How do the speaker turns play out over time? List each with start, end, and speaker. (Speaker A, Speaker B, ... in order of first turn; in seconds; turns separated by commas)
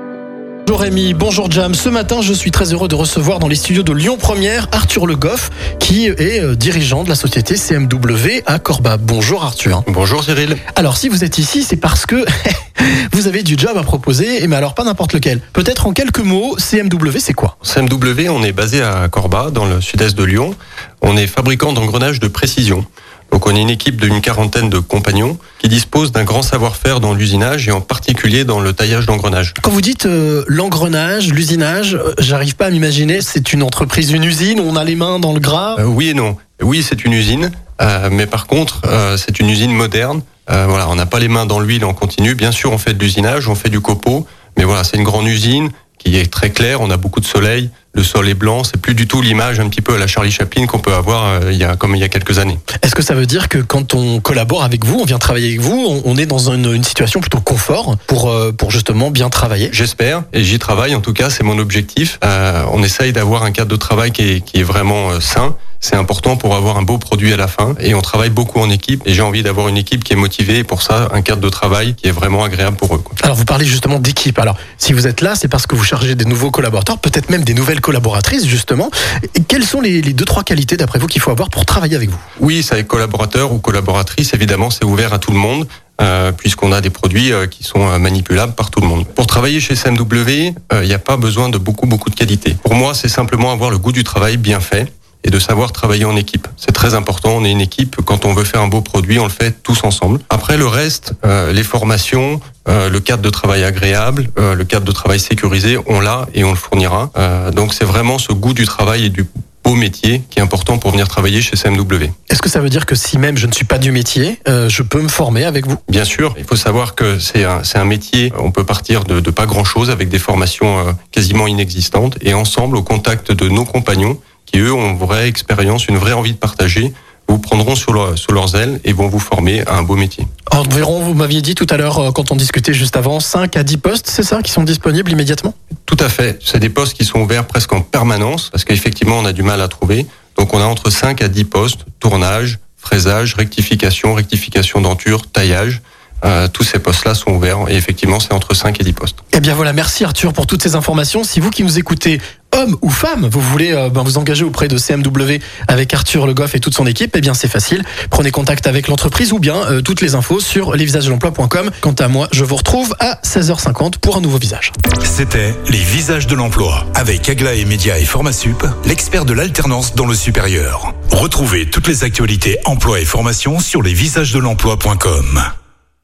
Speaker A: 0.7-9.9, Speaker B: 9.9-10.6, Speaker A: 10.7-17.5, Speaker B: 17.6-29.6, Speaker A: 29.6-35.8, Speaker B: 35.8-52.6, Speaker A: 52.8-59.7, Speaker B: 59.7-73.2, Speaker A: 73.2-82.2, Speaker B: 82.4-112.1, Speaker A: 112.3-115.8, Speaker B: 115.9-130.3, Speaker A: 130.5-135.5, Speaker B: 135.9-149.2, Speaker A: 149.3-164.7, Speaker C: 165.0-175.5